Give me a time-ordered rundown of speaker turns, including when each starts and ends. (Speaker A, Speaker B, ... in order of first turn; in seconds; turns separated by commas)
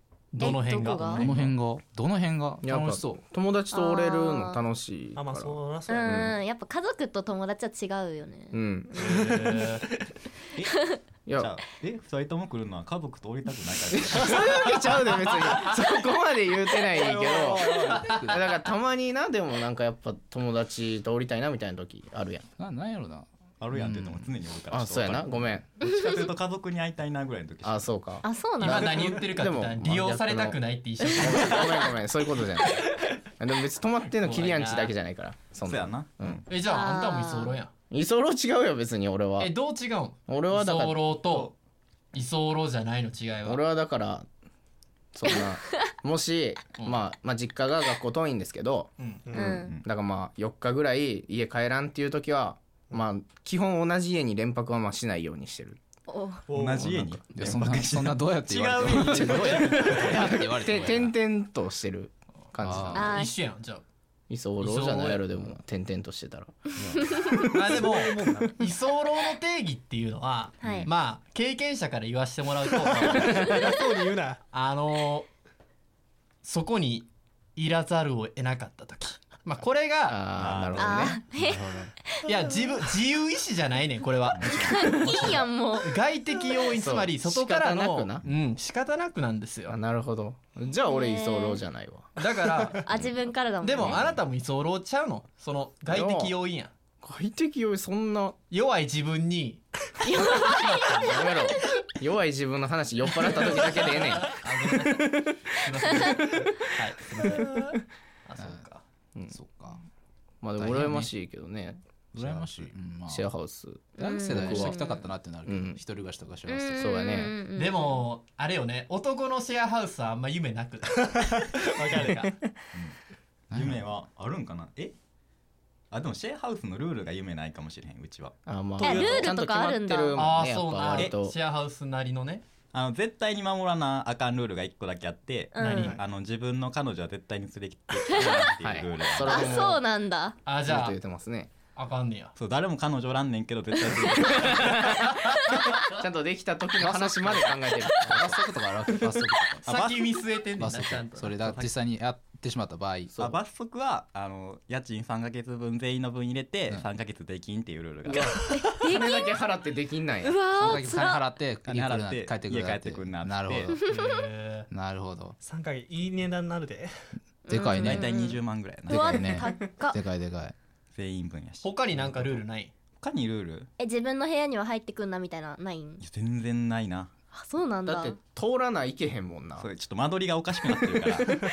Speaker A: 0.3-1.5, Speaker B: 0.4-1.2, Speaker C: 1.1-3.2, Speaker D: 2.6-6.3, Speaker B: 3.7-4.6, Speaker E: 5.2-6.3, Speaker B: 5.9-9.1, Speaker D: 8.5-9.6, Speaker A: 9.0-9.8, Speaker F: 10.6-14.5, Speaker D: 11.3-11.5, Speaker D: 13.9-22.5, Speaker E: 16.9-18.0, Speaker C: 17.2-18.5, Speaker C: 22.6-24.3, Speaker F: 23.6-27.9, Speaker D: 24.7-25.8, Speaker B: 25.9-26.2, Speaker D: 27.6-30.6, Speaker B: 28.2-28.9, Speaker A: 28.6-31.7, Speaker D: 31.1-36.4, Speaker A: 34.2-34.9, Speaker F: 35.6-36.1, Speaker A: 36.5-37.7, Speaker B: 36.6-37.6, Speaker D: 37.9-39.5, Speaker A: 39.4-41.5, Speaker D: 40.3-41.0, Speaker A: 42.1-43.6, Speaker D: 43.4-44.3, Speaker D: 45.1-49.0, Speaker E: 49.2-49.7, Speaker B: 49.3-49.7, Speaker F: 49.5-49.8, Speaker D: 49.8-55.8, Speaker B: 56.1-56.4, Speaker E: 56.5-57.2, Speaker F: 56.5-58.4, Speaker C: 57.3-61.1, Speaker A: 58.5-60.0, Speaker D: 59.2-59.5, Speaker D: 60.0-63.2, Speaker C: 62.6-63.1, Speaker B: 62.9-63.3, Speaker A: 63.0-63.8, Speaker D: 64.3-68.5, Speaker A: 64.6-65.2, Speaker A: 67.5-73.5, Speaker E: 67.9-68.5, Speaker B: 70.6-70.9, Speaker D: 70.6-70.9, Speaker E: 72.9-74.4, Speaker A: 74.5-75.3, Speaker A: 76.4-80.2, Speaker D: 80.1-81.2, Speaker F: 80.3-81.2, Speaker B: 80.8-81.6, Speaker C: 81.3-81.9, Speaker A: 82.2-89.8, Speaker F: 84.3-85.3, Speaker B: 84.6-85.9, Speaker D: 86.7-88.2, Speaker D: 89.7-93.1, Speaker B: 90.8-91.6, Speaker A: 92.2-92.8, Speaker B: 92.8-94.0, Speaker A: 93.6-96.7, Speaker D: 93.8-94.1, Speaker D: 95.9-96.3, Speaker D: 97.0-98.3, Speaker A: 98.5-99.6, Speaker B: 100.0-100.6, Speaker A: 100.3-101.3, Speaker D: 101.0-104.4, Speaker A: 103.4-107.7, Speaker E: 107.4-107.8, Speaker A: 108.2-108.8, Speaker C: 109.3-109.8, Speaker D: 110.4-112.4, Speaker C: 110.6-111.1, Speaker C: 112.1-113.3, Speaker D: 113.1-114.8, Speaker B: 114.0-115.0, Speaker C: 114.0-116.9, Speaker D: 115.5-115.8, Speaker B: 116.5-118.0, Speaker D: 116.8-117.3, Speaker A: 117.5-122.3, Speaker C: 123.5-123.8, Speaker F: 123.5-124.9, Speaker F: 125.9-128.3, Speaker D: 128.4-131.3, Speaker B: 128.8-130.2, Speaker A: 128.8-129.3, Speaker A: 130.2-132.4, Speaker F: 132.7-139.6, Speaker B: 135.5-135.9, Speaker A: 135.6-136.0, Speaker B: 138.1-138.4, Speaker D: 138.2-139.8, Speaker B: 139.2-140.3, Speaker A: 140.4-141.0, Speaker D: 140.6-141.5, Speaker A: 141.8-142.3, Speaker F: 142.4-145.2, Speaker D: 144.5-145.0, Speaker D: 145.7-148.4, Speaker C: 146.8-149.9, Speaker F: 149.7-150.1, Speaker A: 149.7-151.3, Speaker C: 150.6-153.2, Speaker F: 151.4-151.7, Speaker F: 153.2-158.3, Speaker D: 158.1-160.4, Speaker B: 158.6-159.3, Speaker B: 160.2-161.2, Speaker C: 160.6-163.8, Speaker F: 161.6-163.8, Speaker A: 163.9-164.7, Speaker C: 164.7-165.3, Speaker E: 165.4-166.9, Speaker B: 167.4-170.0, Speaker C: 167.5-168.1, Speaker F: 167.8-169.3, Speaker C: 168.9-170.5, Speaker F: 170.9-172.4, Speaker A: 171.6-172.7, Speaker F: 172.9-173.7, Speaker B: 173.8-176.0, Speaker F: 176.0-177.1, Speaker B: 177.3-178.2, Speaker D: 177.8-179.7, Speaker F: 179.6-181.3, Speaker D: 180.7-181.2